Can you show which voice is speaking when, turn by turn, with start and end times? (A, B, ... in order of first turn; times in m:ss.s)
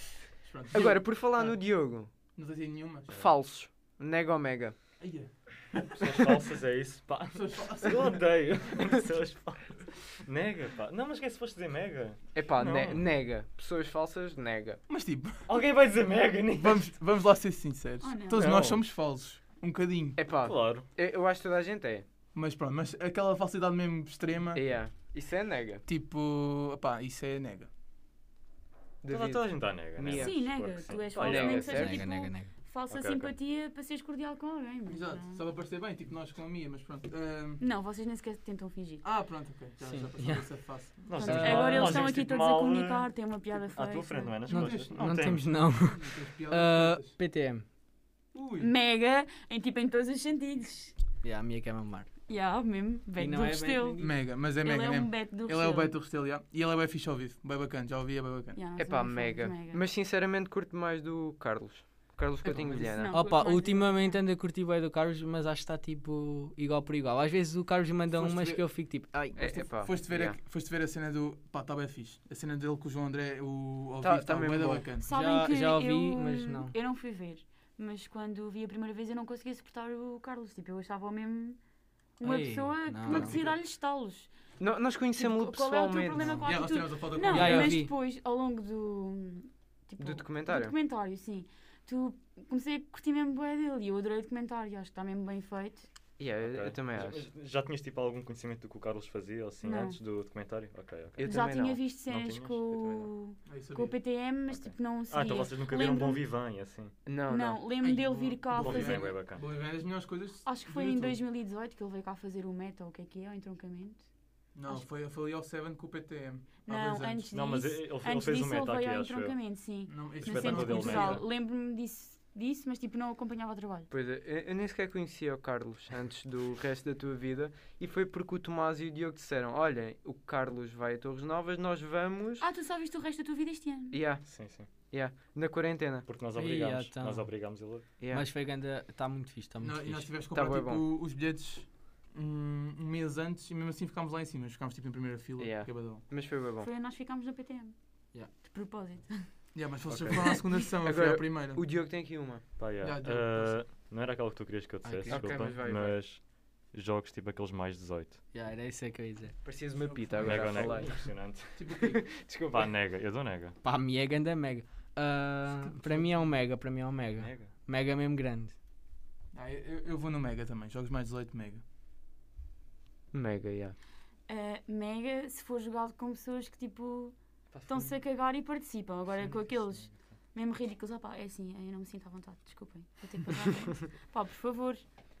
0:00.4-0:01.6 A
0:00.7-0:02.1 B
0:02.3-0:03.1 A
0:03.1-0:04.8 B
0:05.0-0:06.4 A
0:05.9-0:13.1 C
0:07.3-0:08.6 A
0:12.3-0:14.8 B
0:14.9-0:15.6 A
0:15.4-0:16.9 C
0:16.5-0:20.3 A
0:18.0-0:18.5 D
0:18.3-0:18.8 C
0:20.2-0:22.0 B
0:20.3-0:20.9 C
0:22.3-0:24.9 A
0:24.5-0:25.8 B
0:25.8-0:27.7 A
0:29.0-0:32.0 B
0:29.1-0:31.9 C
0:30.1-0:35.4 D
0:31.7-0:32.5 E
0:32.9-0:33.3 C
0:34.9-0:37.6 A
0:37.6-0:39.0 D
0:39.0-0:41.6 A
0:39.8-0:42.0 E
0:41.0-0:45.7 C
0:41.2-0:44.4 D
0:44.5-0:47.2 A
0:44.5-0:47.6 E
0:48.3-0:48.7 A
0:48.6-0:51.0 D
0:51.2-0:52.1 E
0:52.3-0:55.9 D
0:53.2-0:54.1 E
0:54.0-0:58.6 A
0:58.5-0:59.8 D
0:58.8-1:03.1 B
1:02.4-1:03.0 A
1:02.9-1:04.2 D
1:03.1-1:09.4 E
1:08.1-1:15.1 A
1:09.4-1:10.4 B
1:14.0-1:14.9 B
1:15.0-1:21.6 D
1:15.1-1:16.7 E
1:22.2-1:24.3 D
1:22.2-1:23.4 E
1:23.1-1:23.6 A
1:24.6-1:26.4 B
1:25.1-1:35.9 D
1:26.4-1:27.8 A
1:27.2-1:27.9 E
1:30.0-1:30.7 B
1:36.2-1:37.2 B
1:36.4-1:42.9 C
1:39.6-1:40.0 D
1:41.2-1:41.8 B
1:41.2-1:46.2 D
1:42.7-1:43.1 B
1:43.4-1:44.0 A
1:44.5-1:46.9 C
1:47.0-1:47.6 B
1:47.3-1:49.1 D
1:47.8-1:51.2 A
1:48.6-1:49.4 C
1:50.4-1:54.0 D
1:54.5-1:57.3 A
1:56.6-2:03.9 D
1:57.3-2:01.2 C
1:59.9-2:01.2 A
2:03.9-2:12.4 B
2:12.4-2:14.0 D
2:13.9-2:16.1 B
2:14.2-2:14.7 C
2:16.0-2:18.0 C
2:16.3-2:17.4 E
2:18.0-2:18.3 B
2:18.0-2:20.1 E
2:19.6-2:26.0 A
2:20.3-2:20.8 B
2:25.4-2:26.7 B
2:26.6-2:29.3 D
2:29.5-2:31.6 A
2:29.9-2:32.5 B
2:32.6-2:38.2 C
2:32.8-2:33.7 A
2:34.8-2:35.3 E
2:35.1-2:36.0 B
2:38.3-2:39.4 E
2:39.4-2:41.1 B
2:39.8-2:42.1 A
2:40.2-2:41.6 C
2:41.7-2:42.7 B
2:42.4-2:43.6 C
2:43.6-2:48.5 E
2:45.5-2:46.4 A
2:47.2-2:47.6 C
2:49.3-2:51.6 A
2:53.1-2:53.8 B
2:54.3-3:04.9 D
2:57.5-2:57.9 C
2:59.2-3:00.1 C